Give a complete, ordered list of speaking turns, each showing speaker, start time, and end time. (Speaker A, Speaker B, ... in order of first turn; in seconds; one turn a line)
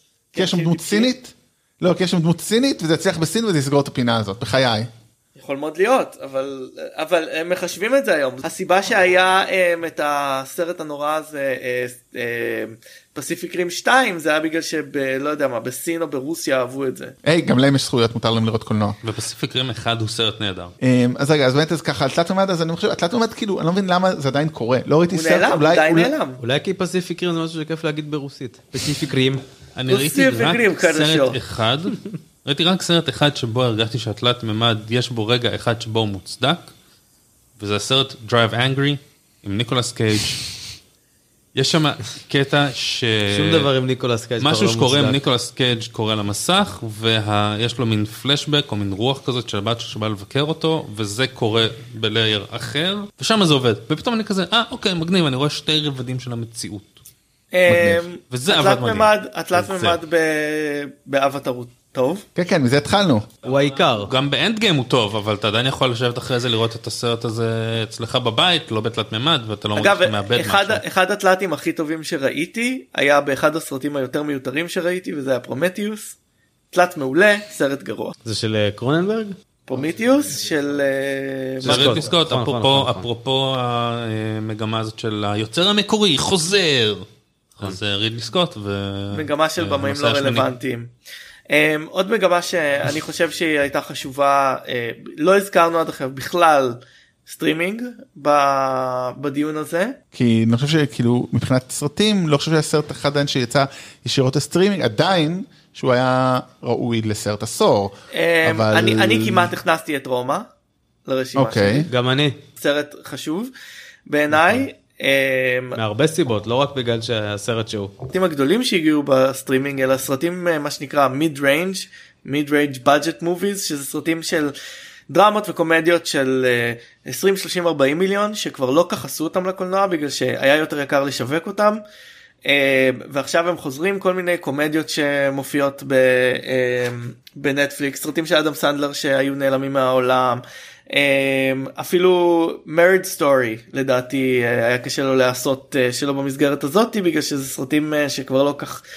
Speaker A: 0.3-1.1
Speaker B: 0.3-4.9
Speaker A: 5.4-17.1
Speaker B: 17.2-19.0
Speaker C: 19.0-20.7
Speaker B: 20.8-26.1
Speaker A: 25.1-26.4
Speaker D: 26.4-29.4
Speaker C: 29.7-36.7
Speaker A: 29.9-31.4
Speaker C: 37.6-40.5
Speaker C: 41.5-43.7
Speaker D: 43.3-45.2
Speaker C: 44.4-57.0
Speaker A: 57.5-62.2
Speaker B: 57.6-58.0
Speaker C: 58.3-60.0
Speaker B: 62.4-63.3
Speaker D: 63.4-64.1
Speaker C: 64.0-70.8
Speaker A: 69.7-76.2
Speaker A: 76.7-78.1
Speaker D: 78.2-79.3
Speaker A: 79.7-82.1
Speaker D: 81.6-83.1
Speaker C: 81.6-90.5
Speaker A: 89.1-90.9
Speaker A: 91.5-100.0
Speaker B: 100.1-109.5
Speaker A: 108.1-110.5
Speaker A: 111.0-111.9
Speaker B: 111.3-111.9
Speaker D: 111.9-112.4
Speaker A: 112.6-113.5
Speaker A: 114.1-115.8
Speaker D: 114.3-114.7
Speaker D: 115.7-117.9
Speaker A: 118.1-124.5
Speaker A: 125.1-131.8
Speaker A: 132.4-148.8